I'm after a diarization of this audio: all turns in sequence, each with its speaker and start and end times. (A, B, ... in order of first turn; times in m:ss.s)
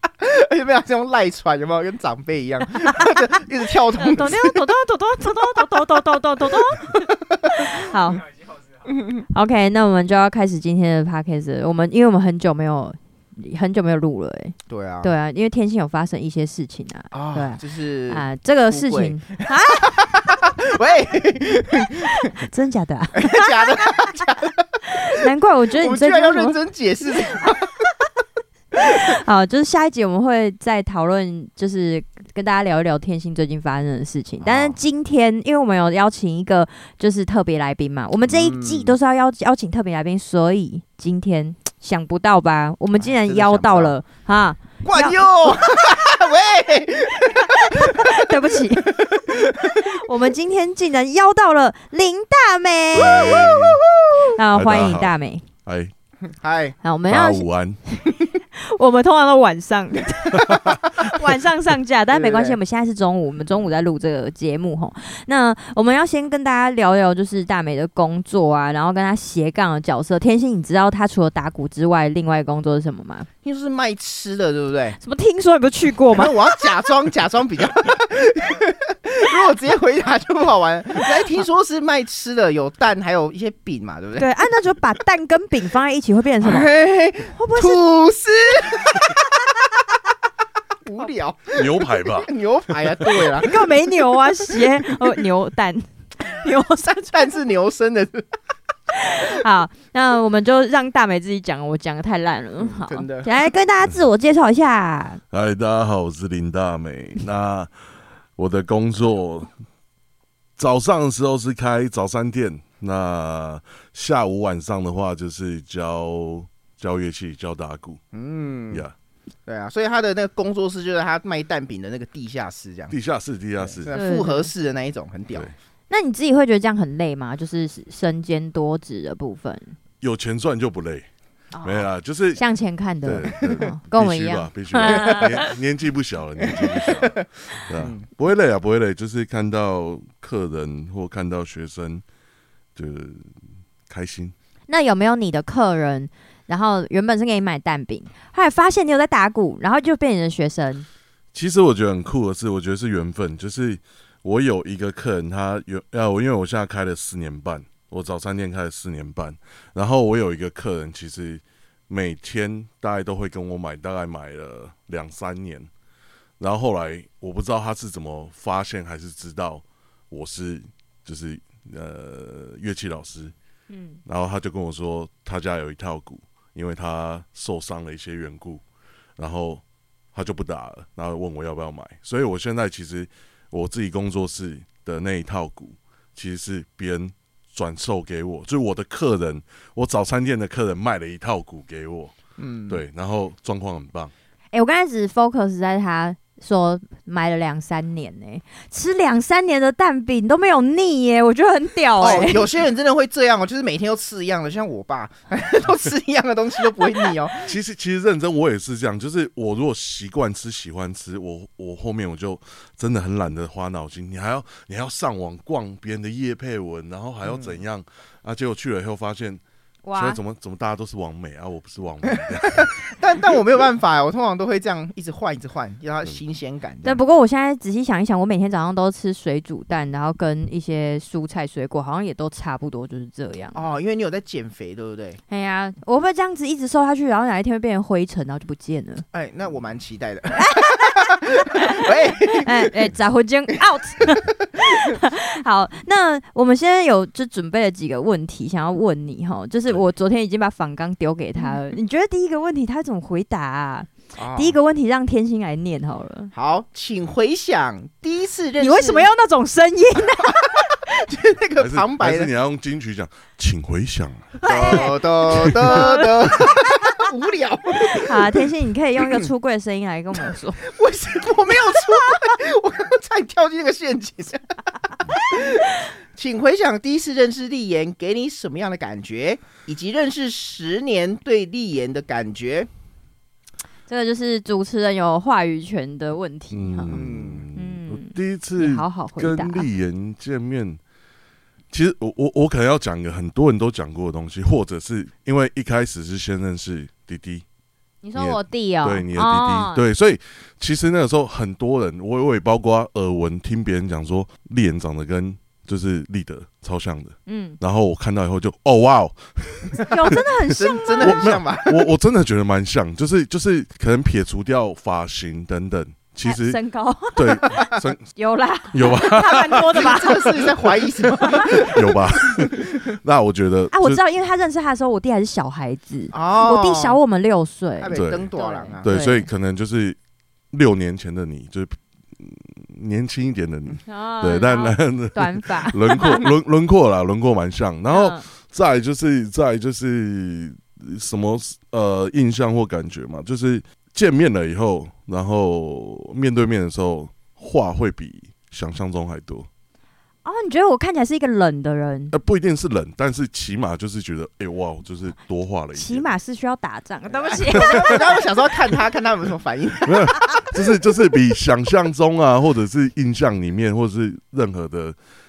0:00.2-0:04.6 A
0:02.8-0:03.2 B
0:04.0-0:08.2 B
0:05.4-0:05.7 A
0:06.7-0:07.8 A
0:08.8-0:09.2 A
0:09.3-0:20.1 B
0:14.7-0:15.1 A
0:17.1-0:22.3 A
0:22.0-0:24.2 B
0:23.1-0:25.2 A
0:24.9-0:26.6 B
0:25.8-0:27.9 A
0:28.8-0:45.2 B
0:34.4-0:34.8 A
0:38.3-0:39.0 A
0:43.0-0:44.0 A
0:44.8-0:48.2 A
0:47.4-0:49.1 B
0:48.9-0:49.8 A
0:49.7-0:53.6 B
0:52.9-0:53.8 C
0:54.3-0:55.5 B
0:54.5-0:55.1 C
0:55.6-0:55.9 C
0:56.3-0:56.8 A
0:56.8-1:13.3 B
0:57.1-0:57.8 C
1:02.1-1:02.6 A
1:13.4-1:15.0 A
1:15.0-1:16.6 B
1:16.1-1:24.3 A
1:24.2-1:26.7 B
1:26.4-1:29.5 A
1:27.3-1:27.8 B
1:30.8-1:33.6 A
1:31.5-1:32.3 C
1:33.0-1:33.3 C
1:33.3-1:37.2 B
1:37.1-1:38.3 A
1:38.9-1:45.2 B
1:42.6-1:43.3 A
1:45.3-1:47.7 C
1:48.4-1:49.5 C
1:50.6-1:58.0 C
1:58.1-1:58.8 A
1:59.4-2:02.9 A
2:02.9-2:03.9 C
2:03.6-2:05.5 A
2:03.9-2:04.5 B
2:05.9-2:09.8 B
2:10.0-2:11.1 C
2:11.5-2:15.5 B
2:11.6-2:12.4 C
2:13.0-2:22.0 C
2:14.9-2:15.5 A
2:16.4-2:18.0 A
2:22.7-2:23.3 C
2:23.9-2:24.3 C
2:24.7-2:30.9 B
2:31.3-2:45.7 C
2:46.4-2:53.3 C
2:53.7-2:54.0 B
2:54.0-2:58.6 C
2:59.2-2:59.6 C
3:00.1-3:12.2 C
3:12.4-3:12.8 A
3:12.7-3:14.1 C
3:14.5-3:22.5 B
3:22.0-3:27.5 A
3:27.4-3:39.4 C
3:37.2-3:37.6 A
3:39.8-3:40.2 B
3:39.9-3:42.7 C
3:42.1-3:47.0 A
3:46.8-3:53.6 B
3:53.5-3:55.2 A
3:55.3-3:59.0 B
3:59.1-4:02.9 A
4:00.3-4:16.3 B
4:14.2-4:14.6 A
4:16.3-4:19.1 A
4:18.6-4:20.9 B
4:20.2-4:22.3 A
4:21.6-4:25.8 C
4:24.4-4:26.1 B
4:24.5-4:28.5 A
4:27.8-4:30.6 B
4:29.0-4:29.3 A
4:30.6-4:34.4 A
4:31.5-4:32.2 B
4:35.1-4:35.7 B
4:35.1-4:42.7 A
4:43.9-4:47.0 B
4:46.5-4:50.8 C
4:46.9-4:47.4 A
4:47.5-4:49.7 B
4:51.7-4:57.4 C
4:58.0-4:59.8 B
4:58.1-5:10.1 C
5:07.3-5:07.6 B
5:09.7-5:11.8 A
5:09.8-5:11.3 B
5:11.0-5:16.6 C
5:16.2-5:17.6 B
5:17.1-5:18.0 C
5:18.1-5:20.4 B
5:18.7-5:19.6 C
5:19.5-5:22.6 A
5:21.2-5:21.7 B
5:21.4-5:24.0 C
5:23.7-5:29.3 B
5:26.1-5:27.0 A
5:27.8-5:28.9 A
5:27.9-5:28.3 C
5:28.8-5:30.0 C
5:30.5-5:49.5 C
5:33.8-5:36.3 B
5:37.9-5:38.2 B
5:50.2-5:52.1 B
5:52.1-5:56.1 C
5:55.7-5:58.2 B
5:57.1-6:00.5 A
5:57.5-5:58.0 C
5:59.8-6:05.0 C